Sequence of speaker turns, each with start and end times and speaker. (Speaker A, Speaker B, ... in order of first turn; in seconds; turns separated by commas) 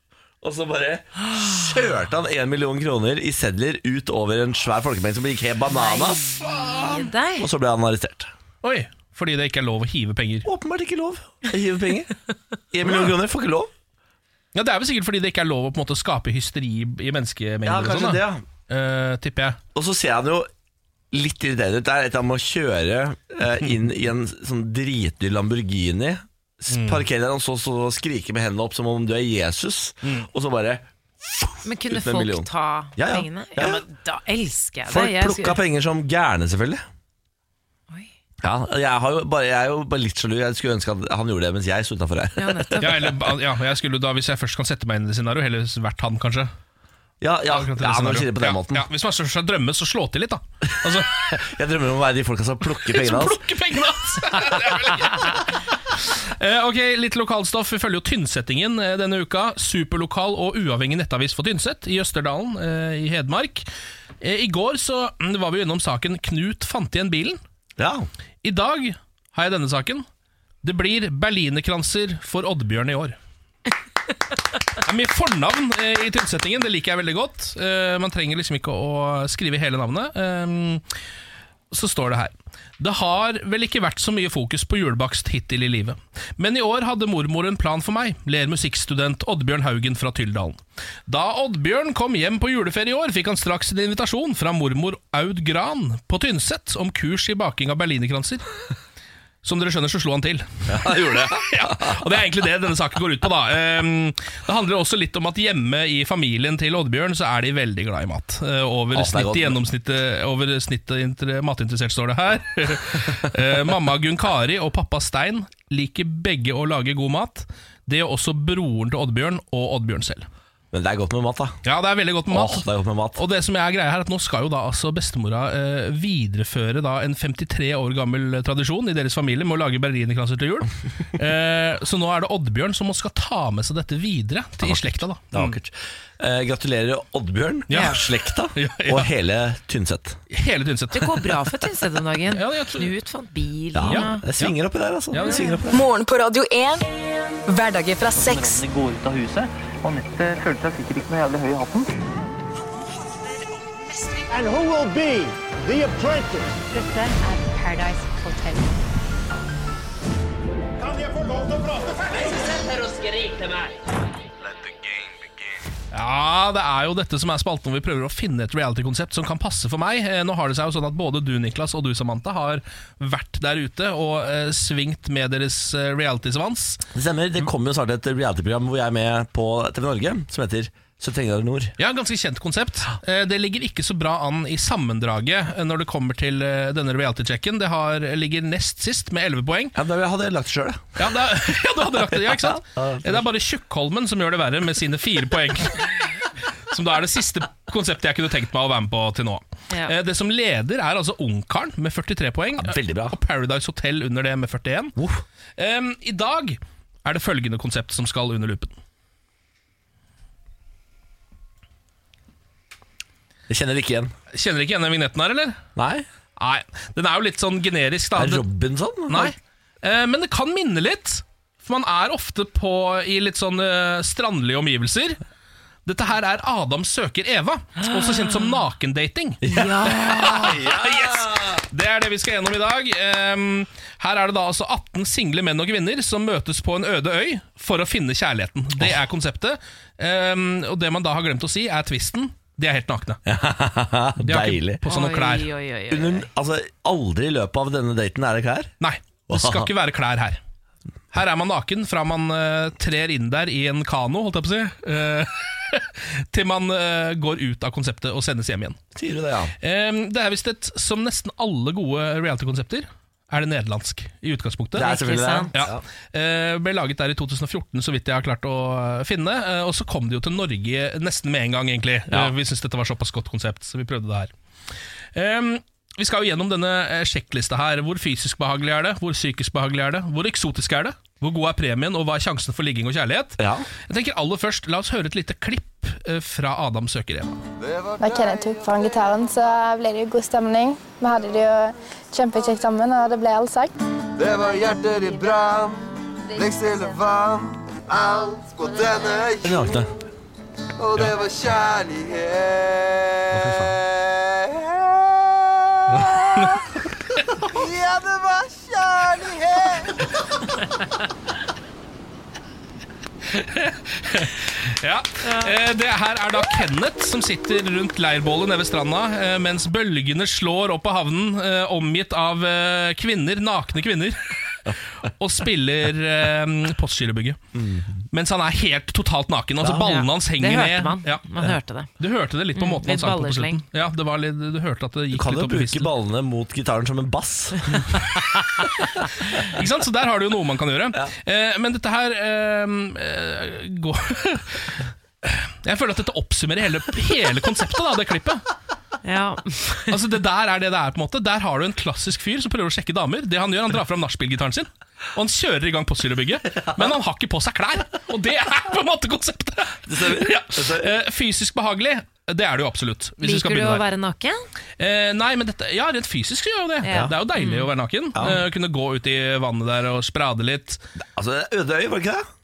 Speaker A: 0.4-8.3, Speaker B: 5.7-7.5, Speaker C: 8.6-10.5, Speaker A: 10.4-12.1, Speaker A: 12.7-13.7, Speaker C: 12.8-13.2, Speaker C: 14.5-19.6, Speaker A: 17.6-18.4, Speaker A: 19.8-20.5, Speaker A: 21.1-33.9, Speaker C: 26.7-27.0, Speaker B: 31.6-35.6, Speaker A: 34.9-36.8, Speaker A: 38.4-43.1, Speaker B: 42.4-42.9, Speaker C: 42.8-46.5, Speaker A: 47.2-48.9, Speaker C: 47.5-51.1, Speaker A: 50.9-53.5, Speaker C: 52.8-63.7, Speaker C: 64.2-67.4, Speaker A: 67.8-68.1, Speaker C: 68.4-70.1, Speaker C: 70.6-73.2, Speaker C: 74.8-80.8, Speaker C: 81.7-98.5, Speaker C: 99.4-120.3, Speaker A: 100.7-102.0, Speaker A: 108.9-109.6, Speaker A: 120.7-121.6, Speaker C: 121.7-135.6, Speaker A: 122.3-123.2, Speaker A: 134.6-140.2, Speaker C: 137.7-139.1, Speaker C: 140.3-141.3, Speaker B: 140.9-144.2, Speaker C: 142.3-142.9, Speaker A: 143.8-145.8, Speaker C: 143.9-144.5, Speaker C: 145.1-145.6, Speaker D: 145.7-146.9, Speaker D: 147.5-148.6, Speaker E: 148.1-151.9, Speaker F: 154.3-156.5, Speaker G: 156.7-158.7, Speaker G: 162.3-163.2, Speaker C: 165.9-176.8, Speaker A: 176.9-181.8, Speaker C: 181.8-189.8, Speaker A: 189.8-191.1, Speaker C: 191.0-195.9, Speaker A: 192.1-193.3, Speaker C: 196.7-205.0, Speaker A: 202.6-203.2, Speaker A: 205.0-205.2, Speaker C: 205.6-208.8, Speaker A: 213.5-214.1, Speaker C: 214.3-215.6, Speaker A: 215.8-216.1, Speaker C: 216.4-218.4, Speaker A: 218.2-219.3, Speaker C: 219.1-225.2, Speaker C: 225.9-243.2, Speaker B: 227.8-228.6, Speaker A: 229.4-231.6, Speaker B: 229.5-230.4, Speaker A: 243.3-244.8, Speaker C: 244.2-245.5, Speaker B: 244.9-246.3, Speaker A: 245.9-248.7, Speaker C: 248.8-250.4, Speaker A: 249.3-249.7, Speaker C: 251.1-258.8, Speaker A: 258.9-259.5, Speaker C: 259.6-264.9, Speaker A: 264.8-265.8, Speaker B: 264.8-265.5, Speaker C: 265.5-274.3, Speaker C: 275.1-287.4, Speaker A: 283.4-283.7, Speaker H: 288.0-293.7, Speaker A: 299.4-299.9, Speaker A: 303.3-303.8, Speaker C: 306.0-306.6, Speaker C: 313.3-324.4, Speaker B: 315.2-315.5, Speaker C: 325.0-327.4, Speaker A: 327.5-328.0, Speaker C: 328.1-335.9, Speaker A: 329.6-330.0, Speaker B: 329.9-331.9, Speaker B: 332.6-333.6, Speaker A: 335.1-338.0, Speaker C: 339.3-348.5, Speaker B: 349.0-350.0, Speaker C: 349.9-363.9, Speaker A: 356.6-356.9, Speaker A: 359.9-360.9, Speaker B: 363.2-364.4, Speaker C: 364.8-370.8, Speaker B: 366.8-367.7, Speaker A: 368.2-368.4, Speaker A: 371.0-372.3